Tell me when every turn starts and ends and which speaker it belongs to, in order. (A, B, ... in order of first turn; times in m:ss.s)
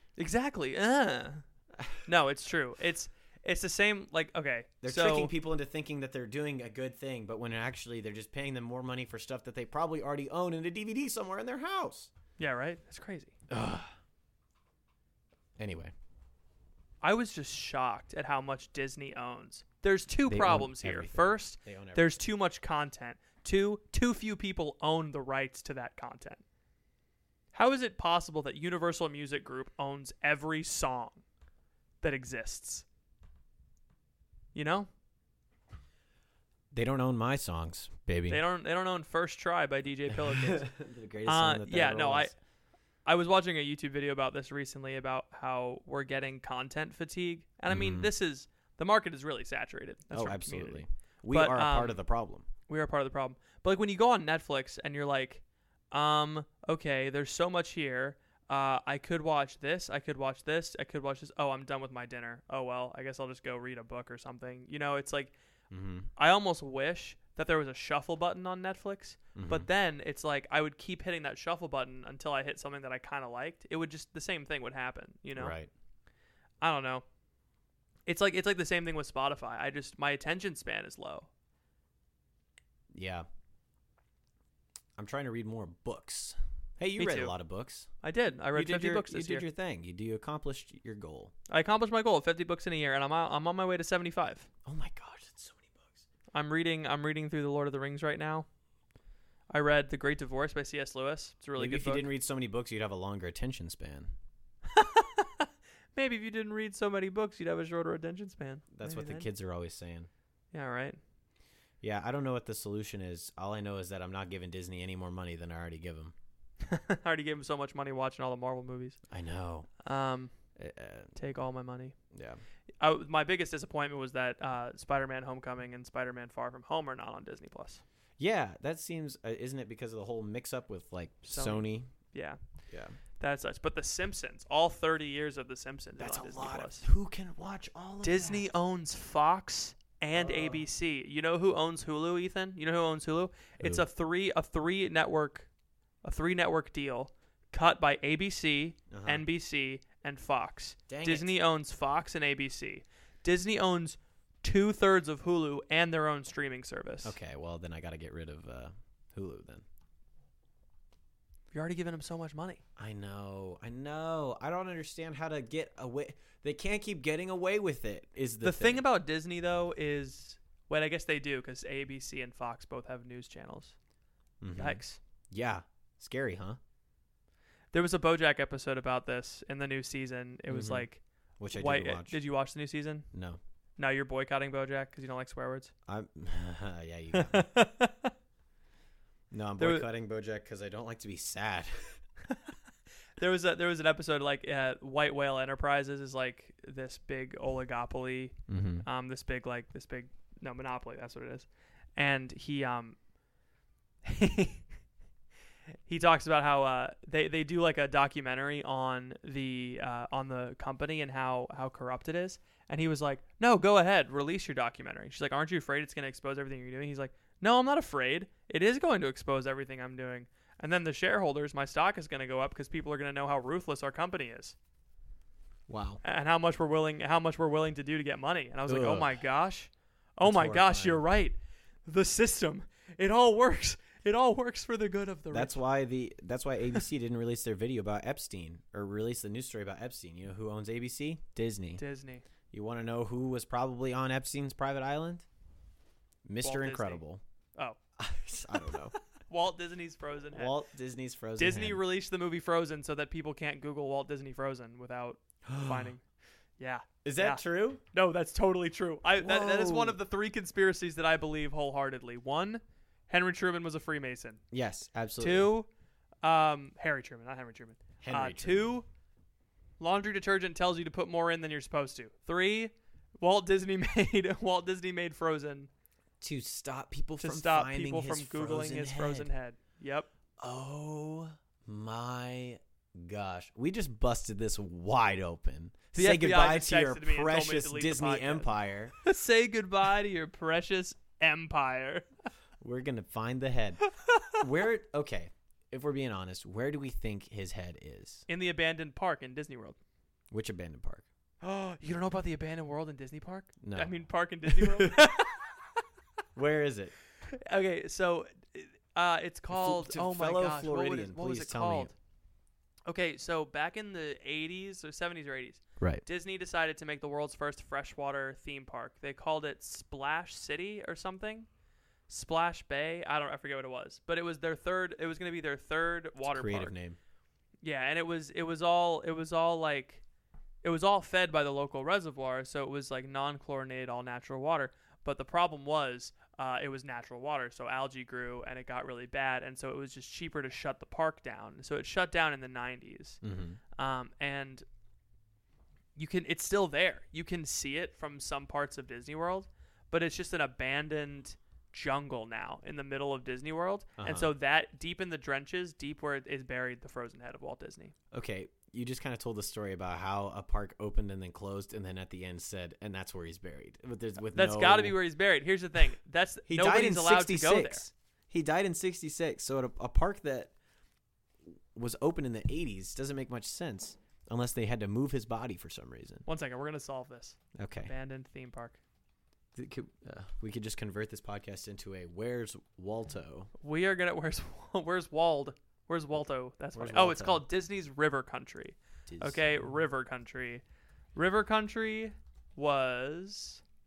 0:00.2-0:01.4 A
0:02.0-0:05.3 A
0:04.8-0:12.1 B
0:12.4-0:13.3 A
0:13.5-0:13.9 B
0:15.6-0:15.9 B
0:17.0-0:26.4 A
0:20.3-0:22.2 B
0:27.5-0:31.2 A
0:32.0-0:32.8 A
0:34.5-0:34.9 A
0:36.7-0:38.4 B
0:38.3-0:40.7 A
0:40.1-0:42.3 B
0:41.2-0:42.3 A
0:43.0-0:52.0 A
0:47.7-0:48.1 B
0:50.1-0:52.5 B
0:52.7-1:05.3 A
1:05.7-1:06.1 B
1:06.2-1:15.5 A
1:09.3-1:09.7 B
1:15.3-1:15.7 B
1:16.6-1:17.0 A
1:18.0-1:21.3 A
1:22.9-1:23.2 B
1:25.0-1:27.9 B
1:27.0-1:27.3 A
1:28.0-1:29.4 A
1:28.5-1:31.3 B
1:31.5-1:34.5 A
1:34.6-1:36.0 B
1:36.3-1:38.4 A
1:39.5-1:42.1 A
1:41.6-1:44.1 B
1:44.7-1:49.3 A
1:48.7-1:50.1 B
1:50.5-1:51.0 A
1:51.8-1:56.1 B
1:56.6-1:59.0 A
1:59.1-1:59.7 B
1:59.8-2:00.3 A
2:00.6-2:01.1 B
2:01.2-2:01.9 A
2:02.1-2:02.4 B
2:02.8-2:07.8 A
2:08.2-2:11.9 B
2:11.3-2:12.4 A
2:12.7-2:13.0 B
2:13.2-2:16.9 A
2:16.0-2:18.5 B
2:18.0-2:25.5 A
2:20.1-2:20.6 B
2:23.6-2:23.8 B
2:26.0-2:37.2 A
2:28.9-2:29.2 B
2:30.9-2:31.3 B
2:37.0-2:39.6 B
2:41.5-2:42.6 A
2:42.8-2:48.8 B
2:48.4-2:53.7 A
2:54.4-2:56.6 B
2:54.5-2:55.0 A
2:57.7-3:01.0 A
3:00.5-3:00.9 B
3:01.4-3:02.2 B
3:01.5-3:03.1 A
3:03.1-3:03.4 B
3:03.8-3:05.7 A
3:05.9-3:07.5 B
3:07.1-3:08.1 A
3:09.3-3:12.0 B
3:09.6-3:09.8 A
3:13.2-3:23.0 A
3:18.5-3:18.8 B
3:24.0-3:24.6 A
3:25.9-3:44.6 A
3:45.7-3:46.0 B
3:46.0-3:55.6 A
3:48.7-3:49.2 B
3:50.2-3:51.0 B
3:55.3-4:01.8 B
4:01.8-4:02.2 A
4:02.5-4:05.2 B
4:06.2-4:07.2 B
4:06.4-4:07.0 A
4:08.0-4:08.9 B
4:09.3-4:10.5 A
4:10.3-4:11.8 B
4:11.4-4:16.0 A
4:15.4-4:15.9 B
4:16.6-4:17.4 A
4:17.0-4:17.8 B
4:17.9-4:24.4 A
4:19.2-4:20.0 B
4:24.5-4:25.5 B
4:25.2-4:25.7 A
4:26.2-4:28.8 A
4:28.0-4:28.7 B
4:29.8-4:35.7 A
4:36.2-4:39.3 B
4:37.2-4:40.1 A
4:40.4-4:49.0 B
4:45.9-4:48.5 A
4:49.0-4:52.1 A
4:52.6-4:53.8 B
4:54.4-4:58.2 B
4:58.3-4:59.8 A
5:00.3-5:01.0 B
5:01.4-5:05.8 A
5:03.6-5:03.9 B
5:04.4-5:05.1 B
5:06.3-5:06.9 B
5:07.3-5:11.9 A
5:09.5-5:11.9 B
5:12.8-5:21.5 A
5:22.1-5:26.7 A
5:26.2-5:27.0 B
5:27.6-5:30.0 A
5:30.6-5:43.2 A
5:43.2-5:43.6 B
5:43.8-5:44.6 A
5:46.0-5:57.9 A
5:54.0-5:54.3 B
5:58.1-6:05.0 B
6:04.3-6:07.8 A
6:06.5-6:10.5 B
6:11.5-6:16.3 B
6:16.2-6:18.8 A
6:17.6-6:17.9 B
6:19.5-6:23.5 B
6:23.6-6:30.6 A
6:26.7-6:27.4 B
6:29.1-6:29.4 B
6:31.1-6:33.6 A